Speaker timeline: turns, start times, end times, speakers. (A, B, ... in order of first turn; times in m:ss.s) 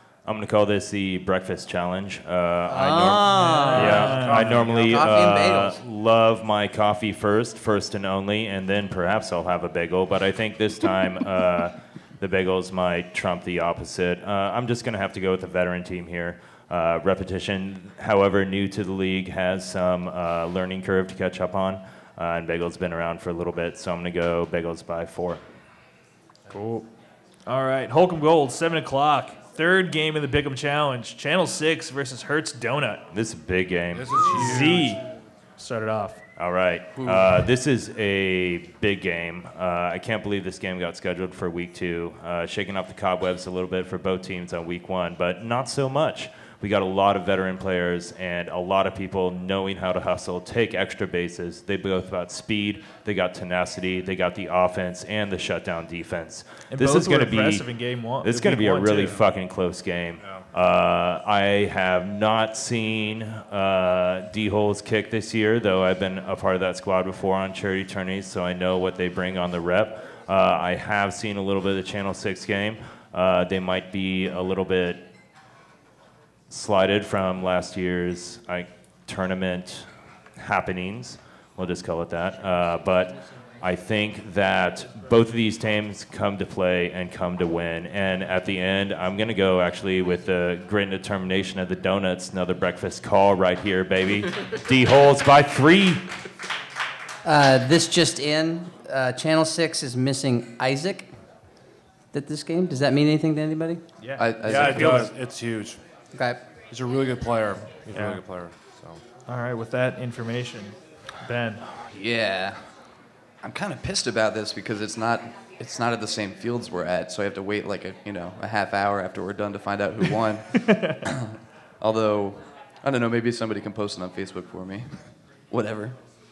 0:00.2-0:25.4 A
0:02.7-0:05.8 B
0:03.3-0:04.7 C
0:03.9-0:05.1 D
0:26.5-0:26.8 C
0:27.4-0:33.0 C
0:33.1-0:34.5 A
0:33.9-0:35.0 D
0:34.3-0:35.0 C
0:35.6-0:36.2 C
0:36.4-0:57.6 A
0:37.0-0:37.3 E
0:56.7-0:59.2 C
0:58.2-1:15.0 A
1:16.5-1:36.0 A
1:37.2-1:41.1 B
1:42.1-1:43.8 B
1:44.0-1:45.1 C
1:44.2-1:45.1 E
1:44.4-1:45.8 D
1:46.1-1:46.4 B
1:46.7-1:49.0 D
1:47.9-1:48.2 C
1:49.3-1:51.6 C
1:51.7-1:52.6 E
1:53.4-2:05.0 E
2:00.6-2:01.0 C
2:05.5-2:06.0 E